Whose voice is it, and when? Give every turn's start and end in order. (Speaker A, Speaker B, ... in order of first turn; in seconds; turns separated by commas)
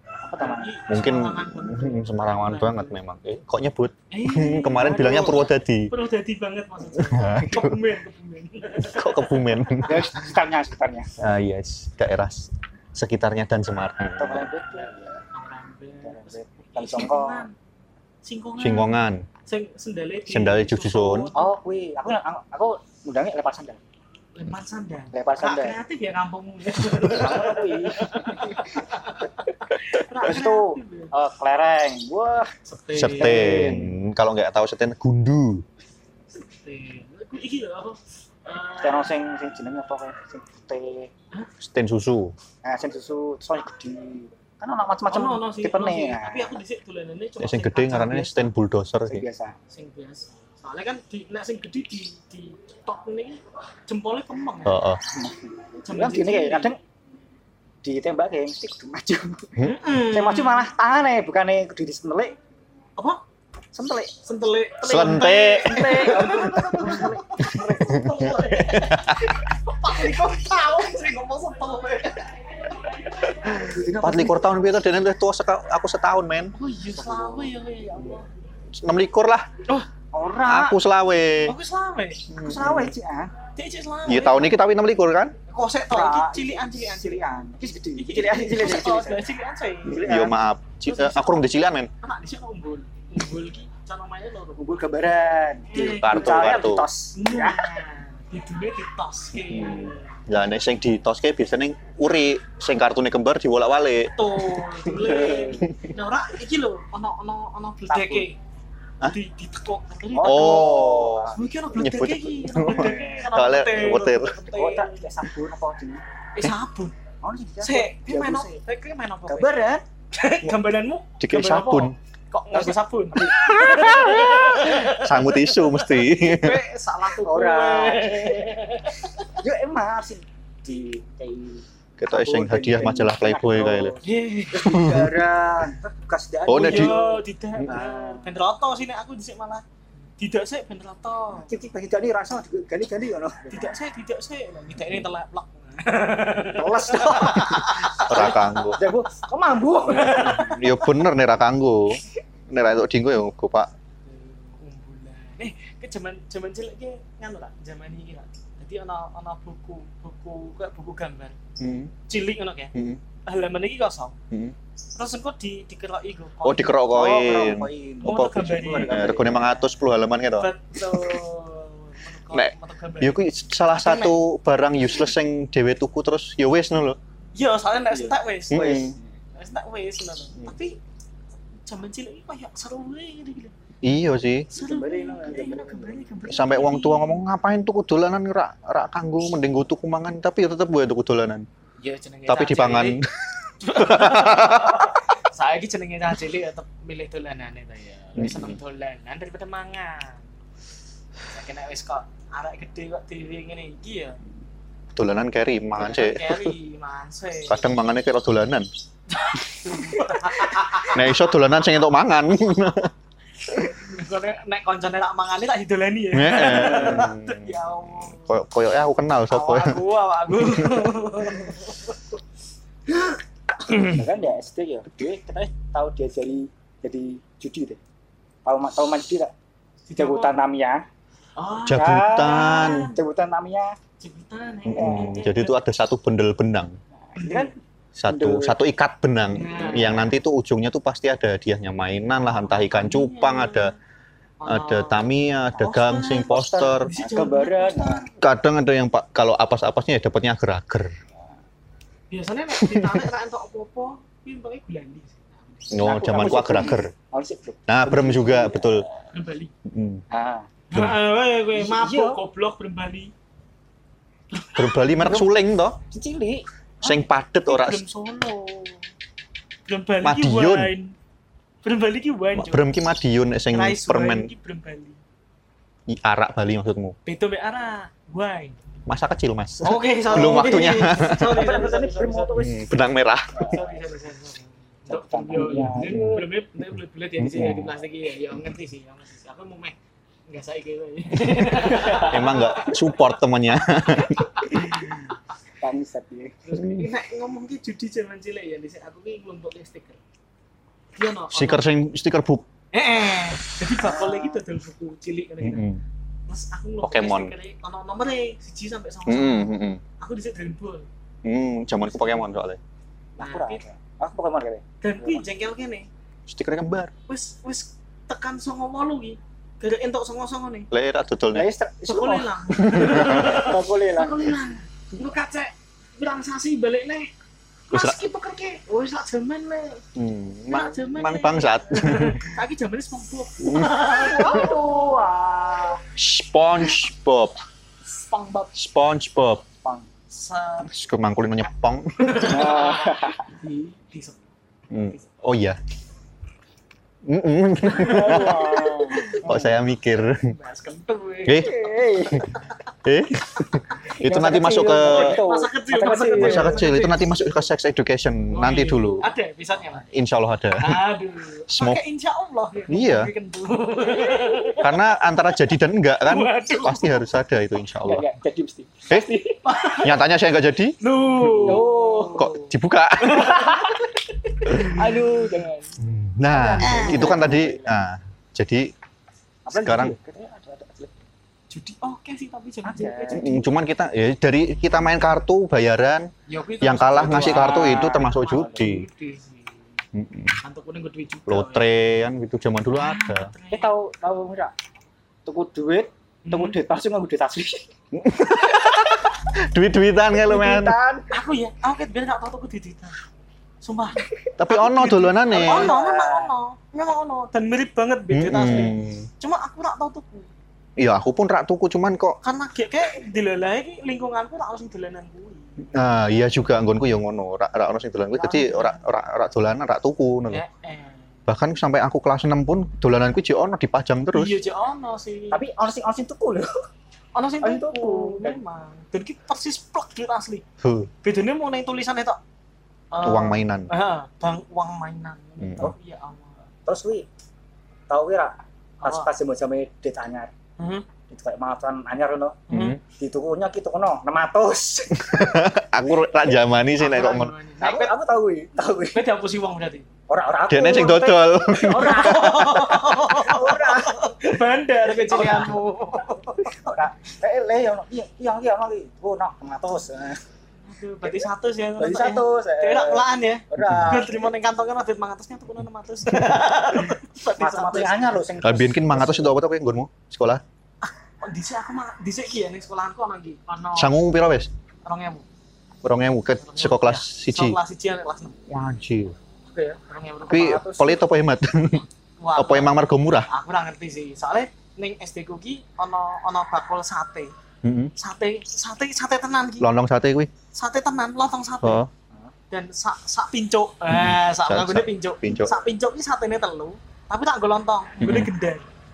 Speaker A: 0.2-0.7, Speaker B: 0.4-3.0, Speaker C: 0.9-5.9, Speaker B: 4.1-9.9, Speaker C: 6.9-7.8, Speaker C: 8.8-10.2, Speaker A: 9.9-11.1, Speaker C: 11.2-14.5, Speaker A: 14.2-15.2, Speaker B: 14.7-17.5, Speaker A: 16.0-17.4, Speaker B: 18.2-21.5, Speaker C: 18.6-19.2, Speaker C: 20.3-21.3, Speaker A: 21.3-23.8, Speaker B: 24.3-31.1, Speaker A: 25.1-25.8, Speaker A: 27.1-28.8, Speaker A: 30.2-33.9, Speaker B: 32.6-33.8, Speaker C: 32.9-35.6, Speaker B: 36.3-39.2, Speaker A: 38.8-41.1, Speaker C: 41.6-42.3, Speaker A: 42.6-46.6, Speaker B: 45.1-48.5, Speaker C: 47.4-49.2, Speaker A: 49.1-49.5, Speaker B: 49.7-54.8, Speaker C: 54.6-55.0, Speaker A: 55.1-56.8, Speaker B: 55.8-56.7, Speaker A: 57.8-62.4, Speaker B: 59.6-60.7, Speaker A: 63.7-64.1, Speaker B: 64.2-74.4, Speaker C: 64.8-66.6, Speaker A: 65.7-67.3, Speaker C: 67.4-69.4, Speaker C: 73.5-76.5, Speaker A: 73.6-74.5, Speaker B: 76.5-78.3, Speaker A: 76.9-77.5, Speaker C: 78.7-79.5, Speaker A: 80.1-80.8, Speaker C: 80.4-81.5, Speaker B: 81.4-82.3, Speaker C: 82.3-82.9, Speaker A: 82.3-83.3, Speaker B: 83.5-84.5, Speaker C: 84.1-85.3, Speaker B: 85.5-91.4, Speaker A: 85.9-89.3, Speaker C: 89.9-91.9, Speaker B: 92.0-94.8, Speaker A: 94.6-97.8, Speaker B: 95.7-100.2, Speaker C: 95.7-96.9, Speaker C: 99.4-105.1, Speaker B: 104.2-108.4, Speaker A: 105.1-105.5, Speaker A: 107.9-108.3, Speaker B: 109.0-115.0, Speaker A: 110.1-111.5, Speaker C: 110.2-114.4, Speaker A: 112.6-113.3, Speaker A: 114.5-116.0, Speaker B: 116.3-117.0, Speaker A: 117.2-118.5, Speaker B: 117.6-129.4, Speaker A: 119.3-119.8, Speaker C: 121.2-121.9, Speaker A: 122.5-124.2, Speaker C: 123.3-126.6, Speaker A: 127.2-128.5, Speaker A: 129.4-138.3, Speaker C: 132.0-134.0, Speaker B: 134.0-134.8, Speaker C: 134.6-135.2, Speaker C: 136.5-137.0, Speaker B: 136.6-139.6, Speaker B: 140.2-141.5, Speaker A: 141.4-143.7, Speaker B: 143.5-149.2, Speaker A: 146.5-150.6, Speaker C: 148.1-148.8, Speaker B: 149.8-151.0, Speaker C: 150.3-153.7, Speaker B: 154.0-161.4, Speaker C: 161.6-161.9, Speaker B: 162.0-162.7, Speaker C: 162.7-163.0, Speaker B: 163.2-164.2, Speaker B: 164.9-166.9, Speaker C: 166.4-171.2, Speaker A: 166.9-169.7, Speaker B: 168.0-169.2, Speaker B: 170.4-173.2, Speaker C: 172.3-177.0, Speaker B: 173.7-174.2, Speaker B: 177.3-180.8, Speaker A: 177.9-179.0, Speaker C: 178.5-178.9, Speaker B: 181.6-183.5, Speaker C: 183.8-184.5, Speaker B: 184.5-187.2, Speaker A: 184.6-186.0, Speaker C: 186.3-191.5, Speaker B: 191.8-193.0, Speaker C: 192.3-194.9, Speaker B: 193.6-200.2, Speaker C: 198.2-198.6, Speaker B: 201.3-204.2, Speaker C: 204.9-206.5, Speaker B: 205.8-207.8, Speaker C: 207.5-208.7, Speaker B: 209.1-211.2, Speaker C: 209.7-210.0, Speaker C: 210.6-212.9, Speaker B: 213.5-218.4, Speaker C: 216.1-220.9, Speaker A: 216.5-217.1, Speaker B: 219.3-222.2, Speaker A: 223.8-227.8, Speaker B: 223.8-224.2, Speaker A: 228.4-229.3, Speaker B: 229.9-230.4, Speaker A: 229.9-230.8, Speaker B: 231.3-233.0, Speaker C: 231.7-232.9, Speaker A: 231.7-233.8, Speaker B: 234.0-235.6, Speaker C: 234.7-236.8, Speaker A: 234.7-235.2, Speaker A: 237.1-237.5, Speaker B: 237.2-237.5, Speaker C: 237.9-243.7, Speaker A: 238.1-238.6, Speaker B: 239.3-240.1, Speaker B: 242.2-243.8, Speaker B: 244.4-248.1, Speaker C: 244.4-246.9, Speaker A: 246.3-248.1, Speaker C: 248.2-250.9, Speaker B: 252.1-256.2, Speaker C: 252.6-253.1, Speaker C: 255.7-256.9, Speaker A: 255.8-258.9, Speaker C: 257.7-258.9, Speaker B: 259.1-259.5, Speaker C: 259.6-260.0, Speaker A: 260.1-260.5, Speaker B: 260.7-263.1, Speaker C: 260.7-261.0, Speaker A: 261.5-262.2, Speaker B: 264.3-264.9, Speaker C: 264.5-265.8, Speaker A: 265.0-265.3, Speaker A: 265.9-266.4, Speaker C: 266.8-267.8, Speaker B: 266.8-268.9, Speaker B: 269.7-270.9, Speaker C: 270.0-270.7, Speaker B: 271.6-272.7, Speaker C: 272.3-274.3, Speaker B: 273.5-275.0, Speaker C: 275.9-276.9, Speaker B: 277.1-278.6, Speaker C: 278.9-281.4, Speaker B: 279.6-282.3, Speaker A: 280.1-282.6, Speaker C: 282.4-283.5, Speaker A: 283.4-283.6, Speaker B: 283.4-289.8, Speaker A: 284.9-286.3, Speaker C: 285.3-286.2, Speaker C: 287.2-287.7, Speaker B: 290.3-293.1, Speaker C: 291.9-294.9, Speaker B: 293.9-295.0, Speaker A: 295.6-296.4, Speaker B: 296.4-300.0, Speaker C: 296.6-296.9, Speaker B: 300.9-301.6, Speaker C: 301.3-302.5, Speaker B: 302.7-305.7, Speaker A: 303.9-304.3, Speaker C: 305.4-305.8, Speaker B: 306.3-310.9, Speaker C: 306.8-307.3, Speaker C: 309.1-309.8, Speaker C: 311.2-312.6, Speaker B: 311.8-312.2, Speaker B: 313.2-313.6, Speaker A: 313.2-315.2, Speaker B: 314.8-315.9, Speaker C: 316.3-316.9, Speaker B: 317.1-320.7, Speaker C: 320.7-321.5, Speaker A: 321.3-324.3, Speaker B: 321.8-327.1, Speaker C: 322.7-323.3, Speaker B: 327.7-329.8, Speaker C: 327.7-328.1, Speaker C: 329.9-332.3, Speaker B: 330.5-334.7, Speaker C: 333.4-333.8, Speaker A: 333.6-335.8, Speaker C: 335.9-337.4, Speaker B: 337.9-338.5, Speaker C: 338.5-339.4, Speaker B: 340.1-340.7, Speaker C: 340.7-342.4, Speaker B: 342.0-344.2, Speaker A: 342.2-343.2, Speaker C: 344.7-345.6, Speaker B: 344.8-345.1, Speaker C: 347.0-348.4, Speaker B: 347.6-349.5, Speaker A: 347.7-349.5, Speaker C: 349.2-350.3, Speaker B: 350.1-352.4, Speaker C: 351.2-351.6, Speaker A: 351.4-352.3, Speaker C: 352.8-355.2, Speaker A: 353.9-356.7, Speaker B: 354.7-357.0, Speaker C: 356.1-359.1, Speaker B: 358.3-359.9, Speaker C: 359.8-360.8, Speaker B: 360.6-364.8, Speaker C: 361.5-361.8, Speaker C: 362.7-363.1, Speaker C: 364.6-368.0, Speaker B: 366.0-367.1, Speaker A: 367.8-369.4, Speaker B: 369.4-370.1, Speaker C: 369.8-373.6, Speaker B: 370.8-375.4, Speaker A: 371.3-372.3, Speaker A: 373.2-373.7, Speaker A: 374.6-375.7, Speaker C: 375.8-378.7, Speaker A: 376.2-377.8, Speaker B: 376.6-377.4, Speaker A: 379.4-380.9, Speaker C: 379.5-379.9, Speaker B: 381.5-383.4, Speaker A: 382.6-383.4, Speaker C: 383.1-386.1, Speaker B: 386.3-389.8, Speaker C: 386.6-388.9, Speaker A: 386.9-388.6, Speaker C: 389.9-390.4, Speaker B: 390.4-391.7, Speaker C: 391.3-393.3, Speaker B: 392.7-393.7, Speaker A: 393.5-394.5, Speaker A: 395.2-397.7, Speaker B: 396.2-396.6, Speaker C: 397.9-400.8, Speaker A: 400.2-401.1, Speaker B: 401.1-403.0, Speaker B: 403.6-410.3, Speaker C: 404.4-405.7, Speaker A: 405.3-406.3, Speaker C: 408.1-409.1, Speaker C: 410.8-412.2, Speaker B: 412.2-415.7, Speaker C: 415.7-420.4, Speaker B: 418.2-418.8, Speaker B: 420.3-421.0, Speaker C: 421.3-424.4, Speaker B: 424.1-425.4, Speaker A: 425.3-426.6, Speaker B: 427.1-430.4, Speaker A: 427.4-428.4, Speaker C: 430.6-430.9, Speaker B: 431.0-432.2, Speaker B: 432.9-436.4, Speaker C: 433.0-433.7, Speaker C: 435.4-435.7, Speaker A: 436.6-437.1, Speaker A: 437.9-440.3, Speaker B: 438.8-439.1, Speaker B: 440.6-440.9, Speaker A: 441.1-445.2, Speaker B: 442.5-442.8, Speaker C: 442.5-442.8, Speaker C: 445.0-447.3, Speaker B: 446.8-447.9, Speaker A: 447.6-449.1, Speaker B: 448.9-449.9, Speaker A: 450.1-454.1, Speaker C: 450.5-452.5, Speaker B: 451.6-456.8, Speaker A: 454.9-455.6, Speaker A: 456.5-460.2, Speaker B: 460.6-468.2, Speaker A: 461.0-464.3, Speaker C: 463.6-464.0, Speaker A: 467.4-469.4, Speaker C: 468.4-470.4, Speaker B: 470.8-473.9, Speaker C: 473.8-474.5, Speaker B: 474.8-475.2, Speaker C: 475.8-477.6, Speaker B: 476.4-478.4, Speaker C: 478.5-479.1, Speaker B: 479.5-481.0, Speaker C: 480.3-483.3, Speaker B: 482.2-482.8, Speaker B: 483.3-487.3, Speaker C: 487.6-487.9, Speaker B: 488.0-489.7, Speaker C: 489.6-490.3, Speaker B: 490.5-491.8, Speaker C: 491.6-491.9, Speaker B: 492.5-498.6, Speaker C: 493.9-495.5, Speaker C: 498.0-498.3